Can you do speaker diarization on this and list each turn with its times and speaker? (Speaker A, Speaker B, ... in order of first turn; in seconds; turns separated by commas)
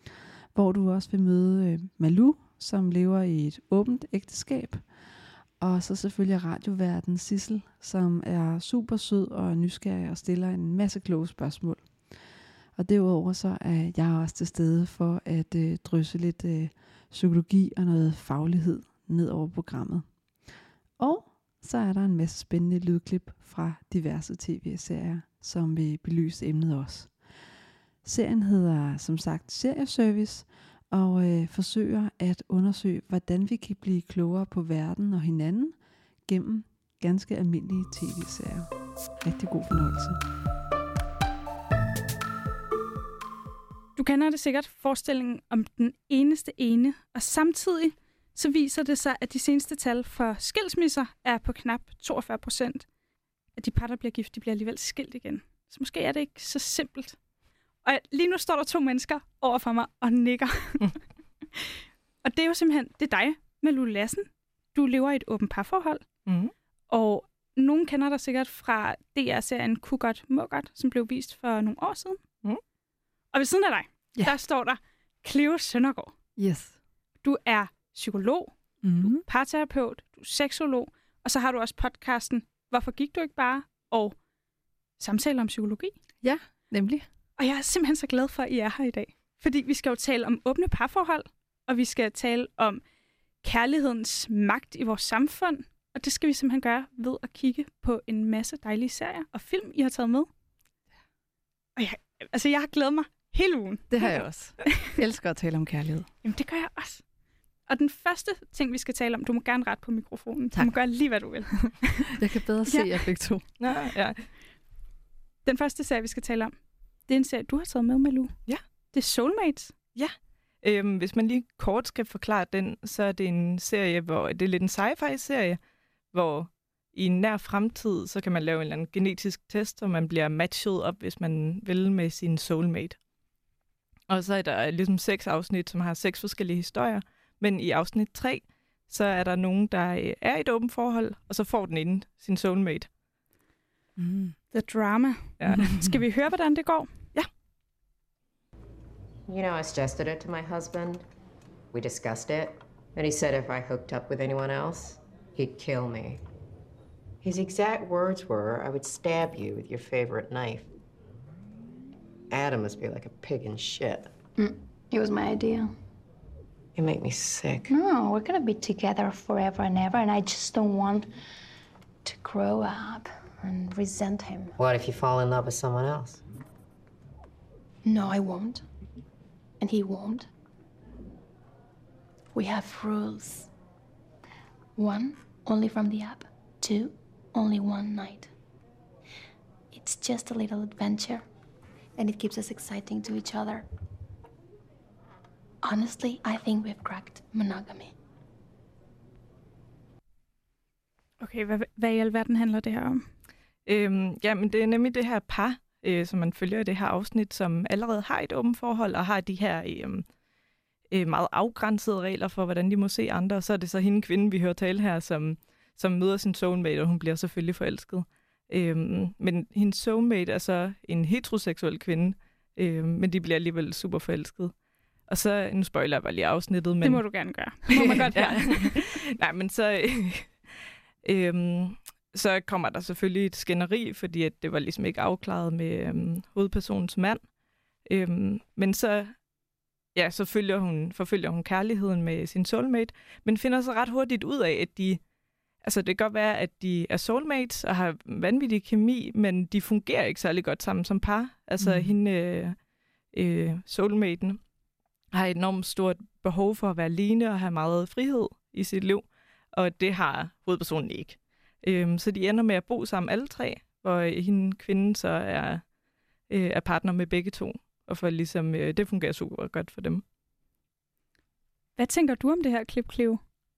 Speaker A: 0.5-4.8, Speaker A: 5.6-11.9, Speaker A: 12.8-20.1, Speaker A: 21.0-27.1, Speaker A: 28.0-35.8, Speaker A: 36.3-38.7, Speaker A: 39.2-40.2, Speaker B: 44.0-52.9, Speaker B: 53.6-57.2, Speaker B: 57.8-61.0, Speaker B: 61.5-66.0, Speaker C: 66.3-66.5, Speaker B: 66.9-72.2, Speaker B: 73.3-76.1, Speaker A: 76.4-76.8, Speaker B: 77.2-78.5, Speaker A: 78.8-79.2, Speaker B: 79.2-84.2, Speaker B: 85.0-85.9, Speaker A: 86.2-87.1, Speaker B: 87.4-92.8, Speaker B: 93.4-100.3, Speaker B: 101.8-104.2, Speaker A: 103.9-106.1, Speaker B: 106.2-107.0, Speaker B: 107.7-112.2, Speaker A: 112.2-113.4, Speaker C: 113.6-114.2, Speaker B: 115.4-116.5, Speaker B: 117.1-118.3, Speaker B: 118.9-119.7, Speaker C: 119.9-125.6, Speaker C: 126.1-132.9, Speaker C: 134.1-142.9, Speaker A: 144.0-144.3, Speaker B: 144.5-146.9, Speaker D: 149.3-151.0, Speaker D: 151.7-156.2, Speaker D: 157.2-160.7, Speaker D: 162.3-164.1, Speaker E: 164.4-165.7, Speaker D: 166.8-167.7, Speaker E: 167.7-171.1, Speaker E: 172.0-174.6, Speaker D: 174.6-176.2, Speaker E: 177.8-178.7, Speaker E: 179.6-180.3, Speaker E: 182.3-183.5, Speaker E: 184.8-188.3, Speaker E: 189.7-191.2, Speaker E: 192.0-193.7, Speaker E: 195.6-197.9, Speaker B: 201.2-203.1, Speaker C: 203.7-210.0, Speaker C: 210.9-224.5, Speaker C: 225.1-227.0, Speaker B: 226.8-228.8, Speaker C: 227.7-230.3, Speaker C: 231.0-237.2, Speaker C: 237.9-239.1, Speaker C: 239.9-245.0, Speaker C: 245.6-252.6, Speaker A: 251.6-251.9, Speaker C: 253.1-254.4, Speaker C: 255.1-265.6, Speaker C: 266.3-270.0, Speaker B: 271.8-273.2